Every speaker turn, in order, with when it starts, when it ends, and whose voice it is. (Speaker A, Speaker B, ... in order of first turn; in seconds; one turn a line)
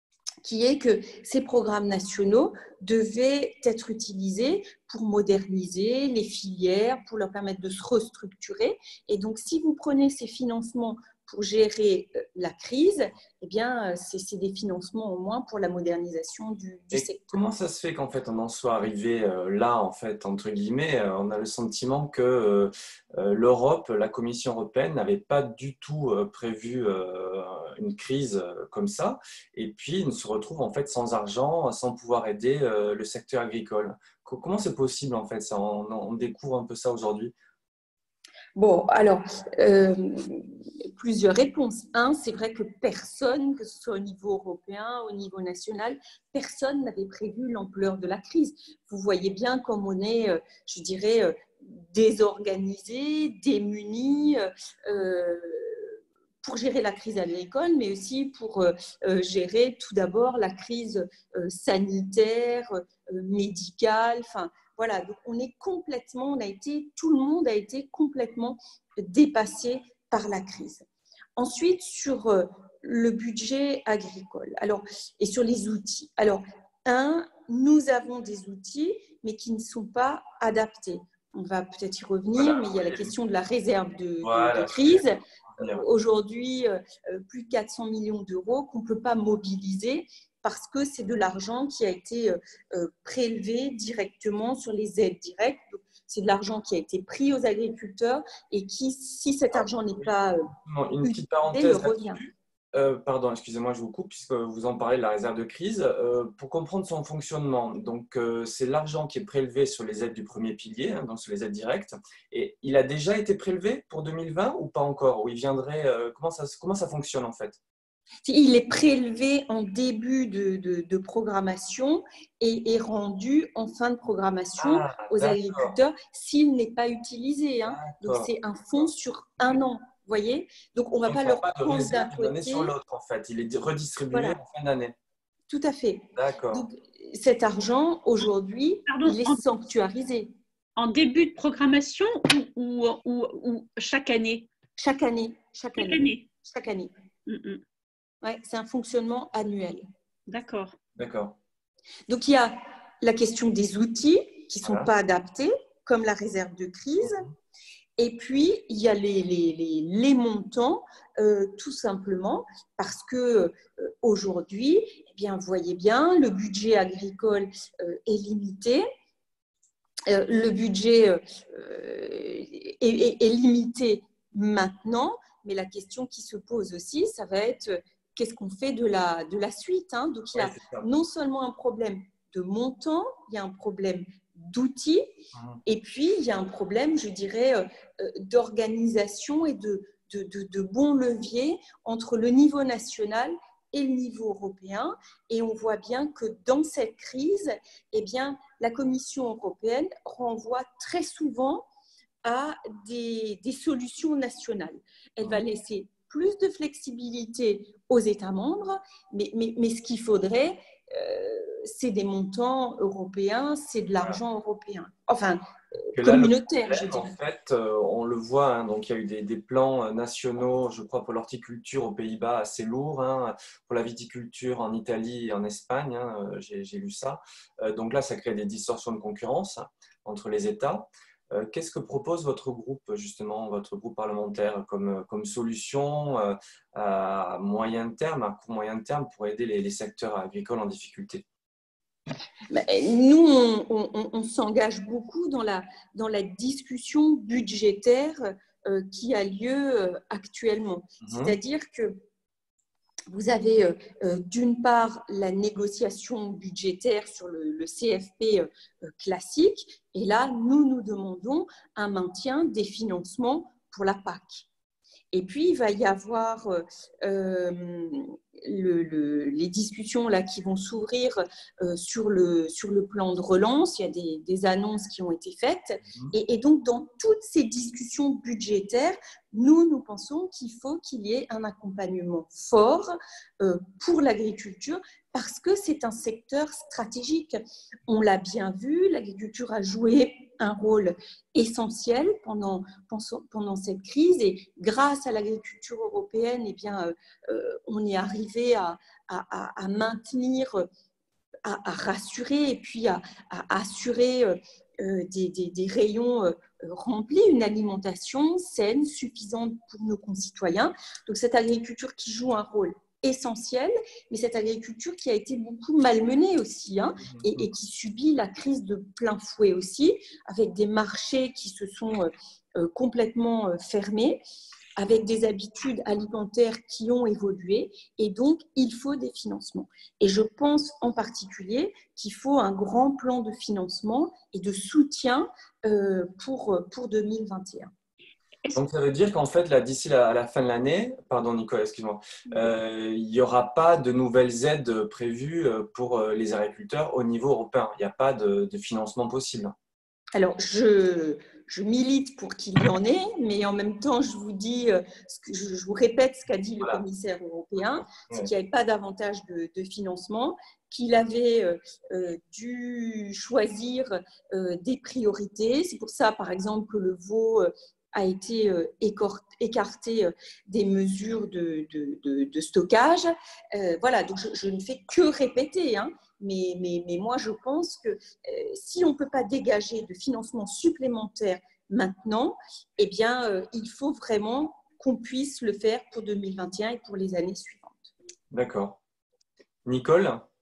Speaker A: 0.4-17.6
Speaker B: 16.9-37.3
Speaker A: 38.6-70.8
Speaker A: 71.4-100.5
Speaker B: 82.4-83.1
Speaker B: 84.2-85.8
Speaker B: 99.5-117.6
Speaker A: 101.0-102.2
Speaker A: 118.2-132.7
Speaker B: 124.6-125.8
Speaker B: 127.7-128.3
Speaker B: 131.1-135.0
Speaker A: 134.1-134.4
Speaker A: 135.5-140.3
Speaker B: 136.2-136.7
Speaker C: 138.9-139.4
Speaker C: 140.8-144.5
Speaker A: 144.8-146.9
Speaker C: 145.8-146.3
Speaker C: 147.3-147.6
Speaker A: 148.2-149.8
Speaker C: 150.3-150.8
Speaker B: 151.0-151.4
Speaker A: 152.1-157.2
Speaker B: 154.6-154.9
Speaker B: 157.0-157.3
Speaker A: 158.0-168.9
Speaker A: 170.1-201.7
Speaker B: 180.3-180.9
Speaker A: 202.2-217.1
Speaker B: 215.9-241.2
Speaker A: 242.5-252.0
Speaker B: 251.0-251.3
Speaker A: 253.1-264.5
Speaker A: 265.1-300.7
Speaker B: 275.9-276.1
Speaker A: 301.4-324.2
Speaker B: 317.0-317.5
Speaker A: 324.8-337.7
Speaker B: 338.5-349.6
Speaker A: 350.1-387.9
Speaker B: 357.9-358.3
Speaker B: 388.3-388.8
Speaker B: 389.6-390.2